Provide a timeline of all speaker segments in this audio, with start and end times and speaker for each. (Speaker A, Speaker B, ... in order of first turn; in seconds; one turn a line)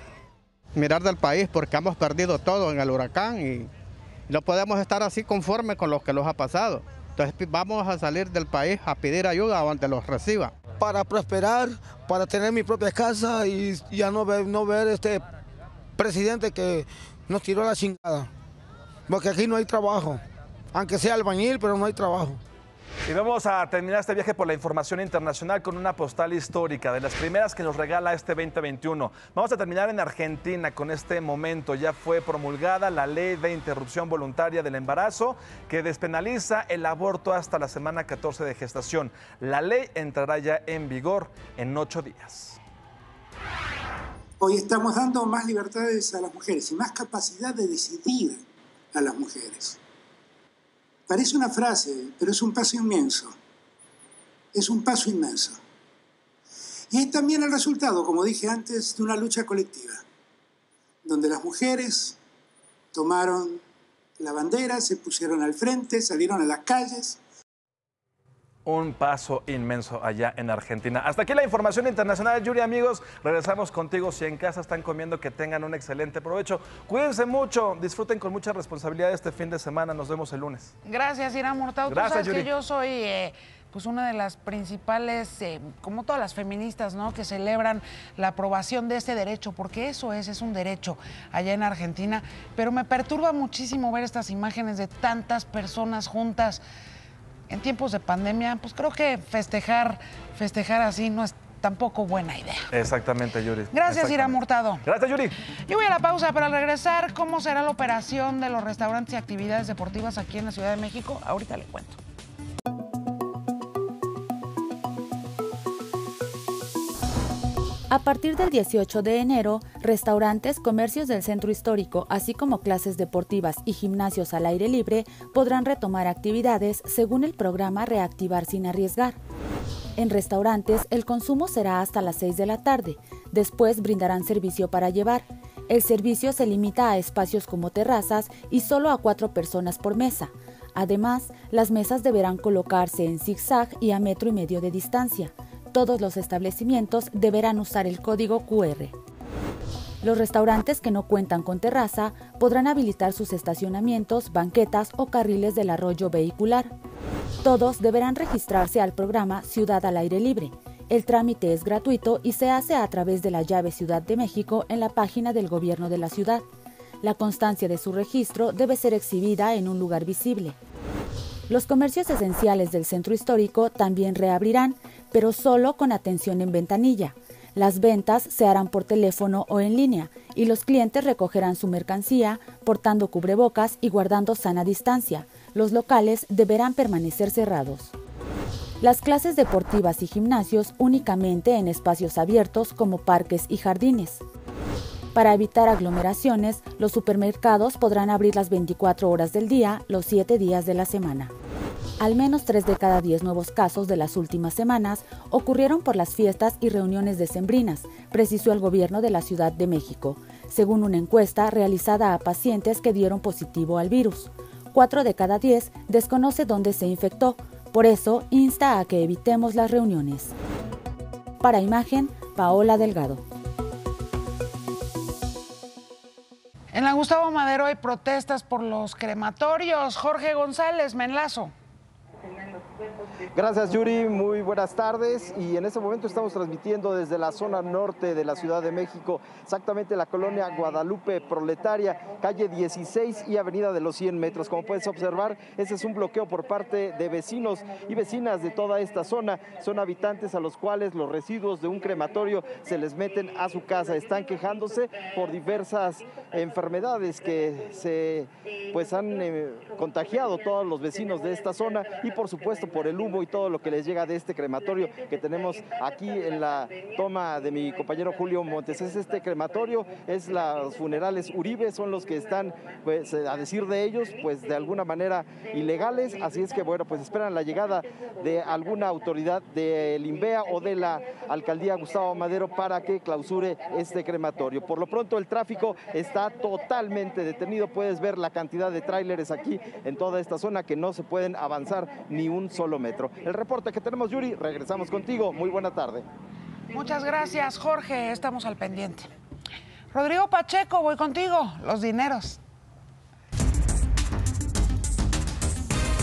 Speaker A: 0.8-3.7
Speaker A: 4.3-10.5
Speaker B: 10.8-15.2
Speaker B: 16.0-18.3
Speaker B: 19.1-20.2
Speaker B: 20.7-22.4
Speaker C: 23.1-42.6
Speaker D: 44.4-49.8
Speaker D: 51.1-53.4
Speaker D: 54.5-55.6
Speaker D: 56.9-60.0
Speaker D: 61.0-62.2
Speaker D: 62.9-63.6
Speaker D: 64.2-67.2
Speaker C: 68.7-80.7
Speaker E: 80.9-96.6
Speaker C: 81.9-82.5
Speaker E: 97.5-102.7
Speaker C: 102.7-105.3
Speaker E: 103.7-104.8
Speaker E: 105.7-112.0
Speaker F: 117.9-129.2
Speaker F: 130.0-148.9
Speaker F: 150.0-156.7
Speaker F: 157.4-166.4
Speaker F: 167.0-170.6
Speaker F: 171.5-187.9
Speaker F: 188.8-194.2
Speaker F: 195.1-201.3
Speaker F: 202.0-220.3
Speaker F: 221.4-223.2
Speaker E: 226.7-231.5
Speaker G: 233.4-258.2
Speaker G: 258.8-296.0
Speaker E: 296.7-299.1
Speaker E: 299.9-302.4